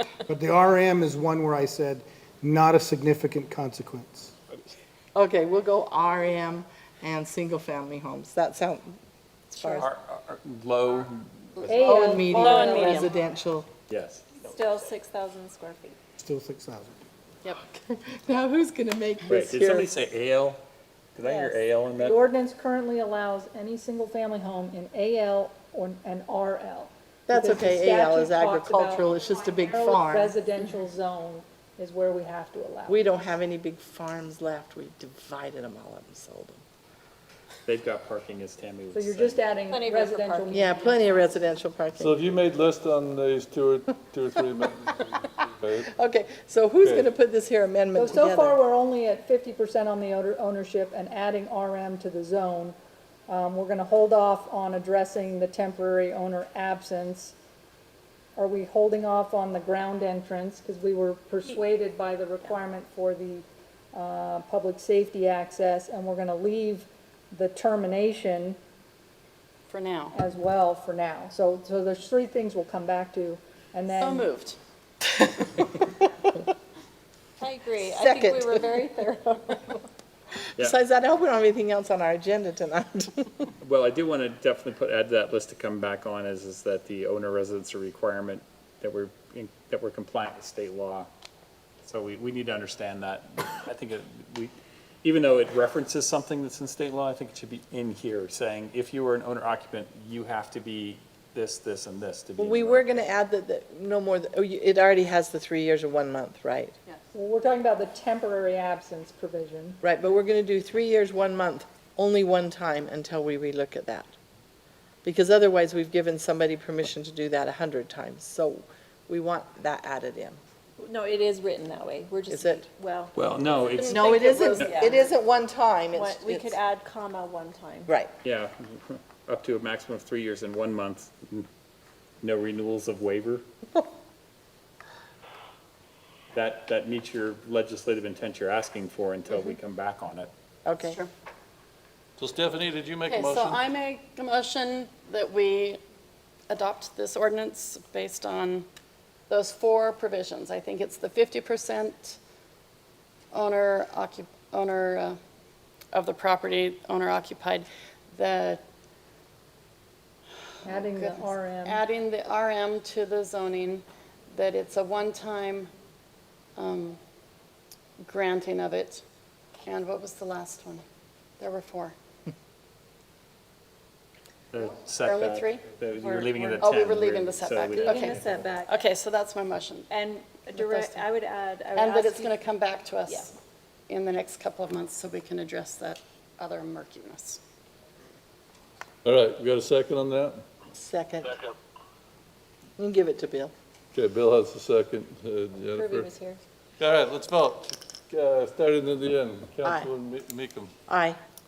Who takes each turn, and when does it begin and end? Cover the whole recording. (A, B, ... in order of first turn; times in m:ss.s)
0:00.3-0:04.4 A
0:05.1-0:09.0 B
0:09.5-0:09.9 B
0:09.8-0:12.0 C
0:11.6-0:13.0 D
0:11.8-0:13.7 B
0:12.4-0:13.0 E
0:13.9-0:14.7 C
0:14.5-0:16.0 E
0:16.2-0:17.0 A
0:17.6-0:19.9 B
0:19.3-0:20.6 C
0:21.1-0:22.2 C
0:21.3-0:33.0 D
0:27.3-0:30.3 B
0:32.9-0:36.6 B
0:37.6-0:39.4 C
0:38.9-0:41.0 D
0:39.7-0:41.2 E
0:40.5-0:42.2 B
0:42.0-0:45.9 F
0:45.9-0:48.6 B
0:48.0-0:52.8 D
0:53.3-0:57.4 D
0:58.4-1:08.6 D
1:09.7-1:10.1 G
1:10.1-1:14.3 D
1:13.9-1:14.6 G
1:15.2-1:15.6 B
1:17.4-1:19.8 E
1:17.8-1:18.8 B
1:20.6-1:23.5 B
1:23.6-1:31.1 C
1:31.8-1:43.0 C
1:42.4-1:46.7 B
1:47.1-1:49.8 D
1:49.8-1:54.1 B
1:55.0-2:00.4 B
2:00.8-2:03.1 E
2:02.3-2:02.6 B
2:03.1-2:04.1 C
2:03.8-2:04.8 G
2:03.8-2:05.1 E
2:03.8-2:06.6 B
2:05.9-2:07.9 E
2:08.2-2:11.4 C
2:12.2-2:13.4 C
2:16.3-2:20.3 C
2:20.6-2:21.0 B
2:20.8-2:21.1 G
2:22.2-2:23.7 F
2:23.0-2:25.8 G
2:26.5-2:28.6 G
2:29.3-2:32.2 G
2:33.3-2:35.2 G
2:35.9-2:38.6 G
2:40.6-2:41.8 D
2:40.6-2:45.7 G
2:46.6-2:47.0 G
2:48.0-2:49.0 G
2:49.6-2:50.8 G
2:51.4-2:51.9 G
2:54.5-2:58.4 C
2:55.0-2:59.9 G
2:58.0-2:58.7 E
2:59.9-3:02.4 E
3:00.6-3:01.0 G
3:01.7-3:03.4 G
3:03.9-3:07.4 G
3:09.0-3:10.4 F
3:10.7-3:11.4 B
3:12.8-3:13.5 B
3:13.9-3:16.1 F
3:15.7-3:16.4 E
3:16.8-3:20.7 F
3:19.6-3:19.9 B
3:20.9-3:21.2 B